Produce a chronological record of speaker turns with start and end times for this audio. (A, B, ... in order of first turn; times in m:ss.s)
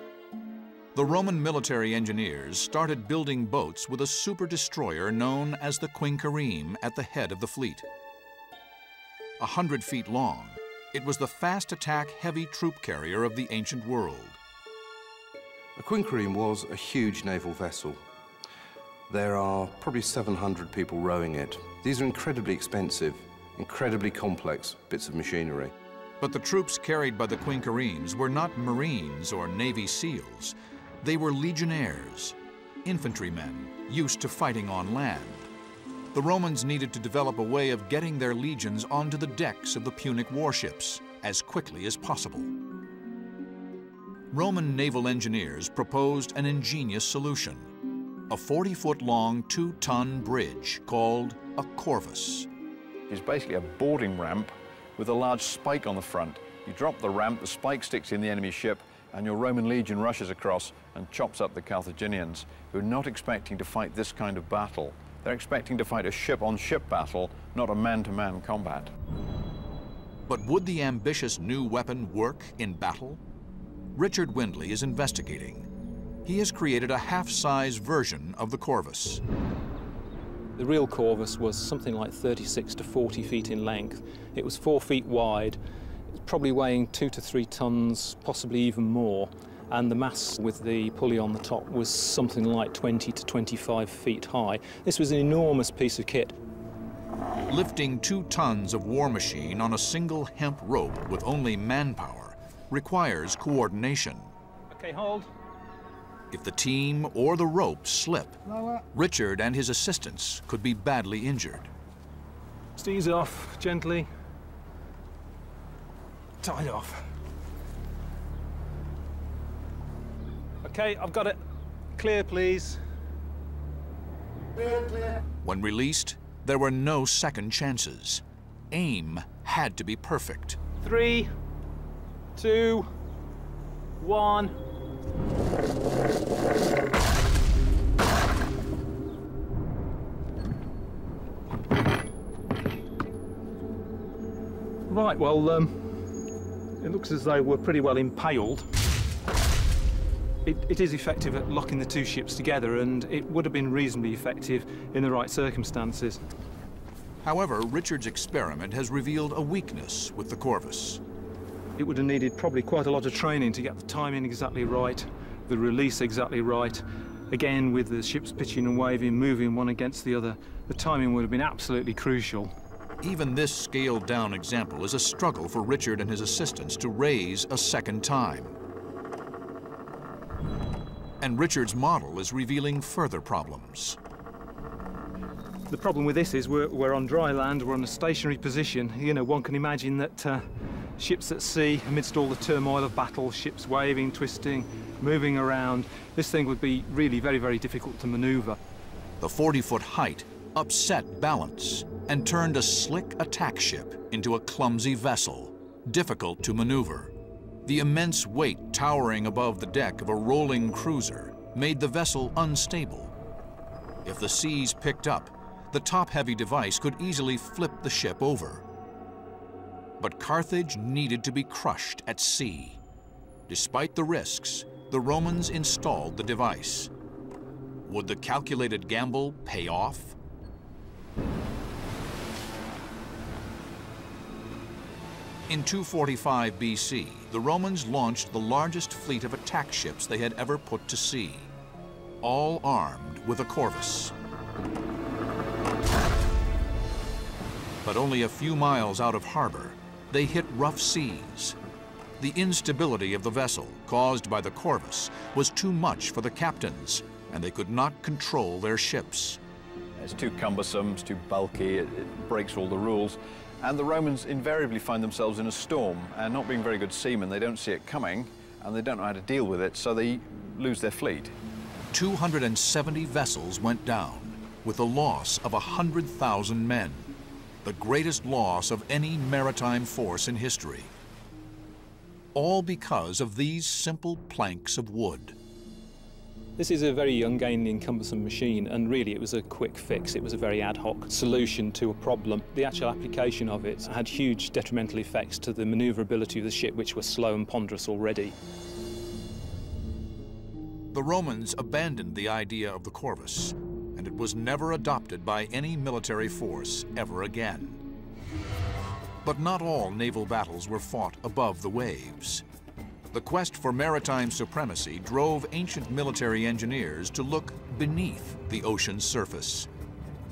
0:00.9-0:07.8 A
0:09.4-0:14.4 A
0:15.8-0:18.0 B
0:19.1-0:25.7 B
0:26.2-0:35.5 A
0:36.1-0:42.5 A
0:44.3-0:47.7 A
0:48.3-0:52.5 A
0:53.1-1:08.9 C
1:10.3-1:13.2 A
1:13.9-1:15.7 A
1:16.2-1:19.2 A
1:20.6-1:25.6 D
1:26.2-1:36.4 D
1:37.5-1:44.3 A
1:44.7-1:45.3 D
1:46.3-1:48.4 A
1:48.9-1:51.7 A
1:52.8-1:54.1 D
1:56.4-1:57.1 D
2:00.6-2:01.4 D
2:02.0-2:02.8 D
2:05.4-2:10.6 A
2:10.8-2:11.3 D
2:12.4-2:12.9 D
2:14.0-2:14.6 D
2:24.9-2:26.0 D
2:26.8-2:28.7 D
2:30.4-2:36.3 D
2:37.2-2:41.0 A
2:41.8-2:52.5 D
2:53.0-2:58.5 A
3:01.2-3:04.0 A
3:05.7-3:18.6 D
3:19.2-3:27.1 A
3:27.6-3:33.1 A
3:34.0-3:38.6 A
3:40.0-3:42.8 A
3:43.5-3:46.9 A
3:47.8-3:50.2 A
3:55.5-4:01.5 A
4:02.2-4:04.1 A
4:07.8-4:11.6 A
4:12.2-4:19.4 A
4:20.0-4:31.3 C
4:31.9-4:37.1 A
4:37.6-4:40.9 A
4:42.3-4:45.4 A
4:46.6-4:58.4 D
5:00.9-5:07.8 A
5:09.2-5:12.4 A
5:13.1-5:19.7 A